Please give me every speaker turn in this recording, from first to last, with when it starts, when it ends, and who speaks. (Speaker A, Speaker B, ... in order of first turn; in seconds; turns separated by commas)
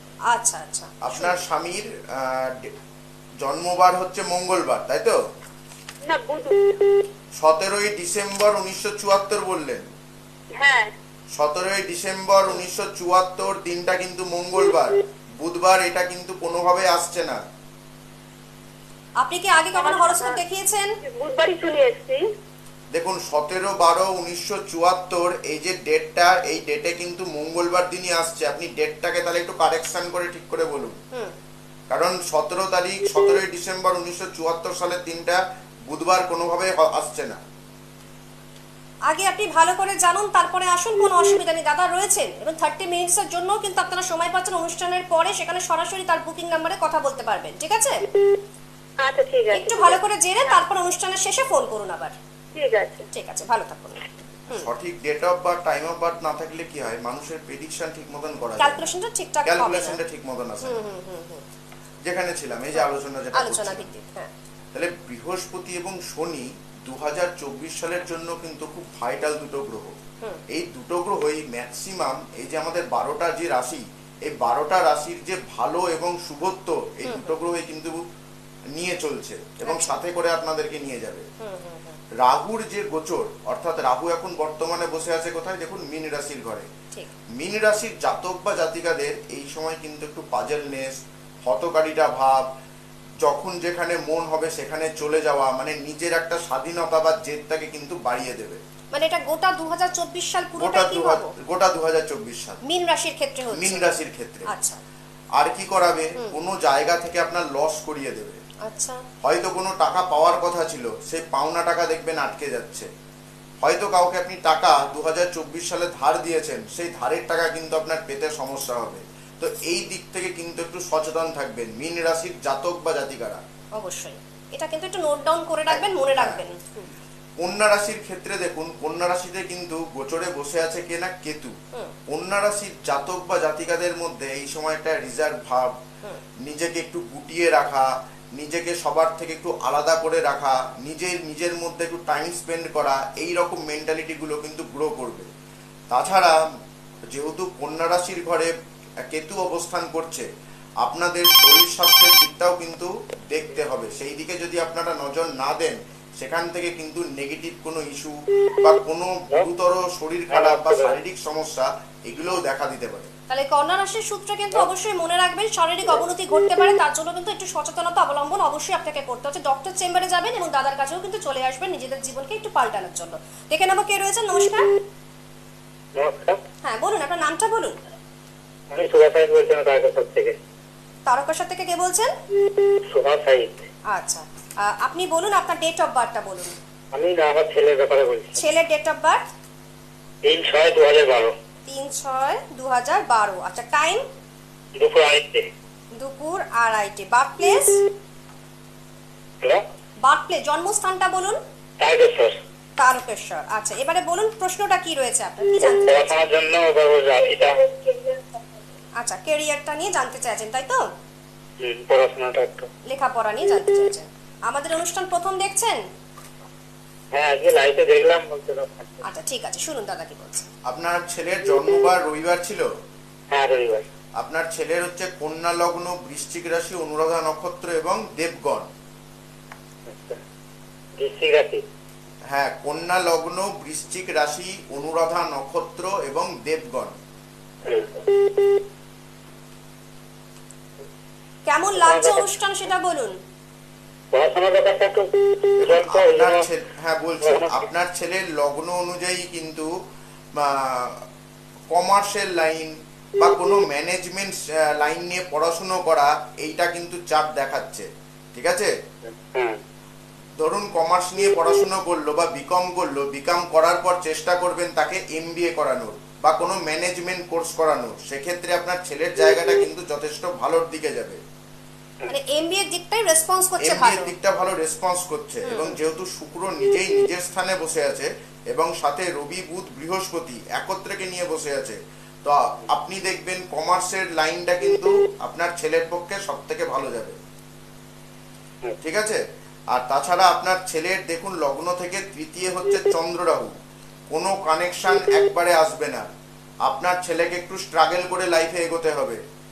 Speaker A: 0.3-1.4, Speaker B: 1.0-2.7, Speaker B: 3.4-5.2, Speaker C: 6.1-7.0, Speaker B: 7.4-9.9, Speaker C: 10.6-10.9, Speaker B: 11.4-17.4, Speaker A: 19.2-20.9, Speaker C: 19.8-20.4, Speaker C: 21.0-22.2, Speaker B: 22.9-31.0, Speaker B: 31.9-37.4, Speaker A: 39.1-48.0, Speaker C: 49.0-50.0, Speaker A: 49.5-52.1, Speaker C: 52.5-53.1, Speaker A: 53.1-54.7, Speaker B: 54.6-58.9, Speaker A: 58.6-60.0, Speaker B: 59.5-60.8, Speaker A: 60.6-61.4, Speaker B: 62.0-63.9, Speaker A: 62.8-64.3, Speaker B: 64.7-70.0, Speaker B: 70.5-78.0, Speaker A: 77.0-77.4, Speaker B: 78.7-81.3, Speaker A: 79.6-80.0, Speaker A: 81.4-82.0, Speaker B: 82.2-86.7, Speaker B: 87.4-90.9, Speaker B: 91.5-92.5, Speaker B: 93.2-98.6, Speaker A: 98.9-101.3, Speaker B: 100.6-102.6, Speaker A: 102.7-103.9, Speaker B: 103.5-104.5, Speaker A: 104.5-104.8, Speaker B: 105.4-108.4, Speaker A: 108.7-109.0, Speaker B: 109.2-112.9, Speaker B: 113.6-123.4, Speaker A: 123.8-126.9, Speaker B: 125.7-126.4, Speaker B: 127.4-131.6, Speaker B: 132.1-135.7, Speaker B: 136.4-145.3, Speaker B: 145.9-146.3, Speaker B: 147.1-150.3, Speaker B: 150.8-163.1, Speaker D: 160.3-161.0, Speaker A: 163.3-174.7, Speaker D: 176.0-176.4, Speaker A: 176.6-177.7, Speaker D: 178.7-180.4, Speaker A: 181.1-182.1, Speaker D: 182.9-183.7, Speaker A: 183.9-186.6, Speaker D: 186.9-188.4, Speaker A: 188.4-189.2, Speaker D: 190.3-191.3, Speaker A: 191.7-194.0, Speaker D: 194.8-195.5, Speaker A: 196.0-197.8, Speaker A: 200.0-201.4, Speaker D: 201.8-202.4, Speaker A: 202.8-206.1, Speaker D: 205.8-207.6, Speaker A: 209.0-210.8, Speaker D: 211.6-212.7, Speaker A: 212.9-215.8, Speaker D: 217.1-219.0, Speaker A: 219.0-220.5, Speaker B: 220.7-222.7, Speaker D: 223.3-223.9, Speaker B: 224.2-228.7, Speaker D: 229.9-230.2, Speaker D: 231.0-231.6, Speaker B: 232.3-237.0, Speaker D: 237.6-238.1, Speaker A: 241.5-243.2, Speaker D: 241.9-242.2, Speaker D: 244.1-246.5, Speaker B: 245.6-249.7, Speaker D: 247.2-247.6, Speaker B: 250.4-251.0, Speaker B: 251.7-258.7, Speaker D: 259.1-259.6, Speaker B: 260.4-271.2, Speaker A: 272.1-274.1, Speaker B: 273.6-287.2, Speaker A: 275.5-275.8, Speaker B: 288.8-289.2, Speaker B: 289.7-293.6, Speaker B: 294.1-296.1, Speaker B: 296.7-299.2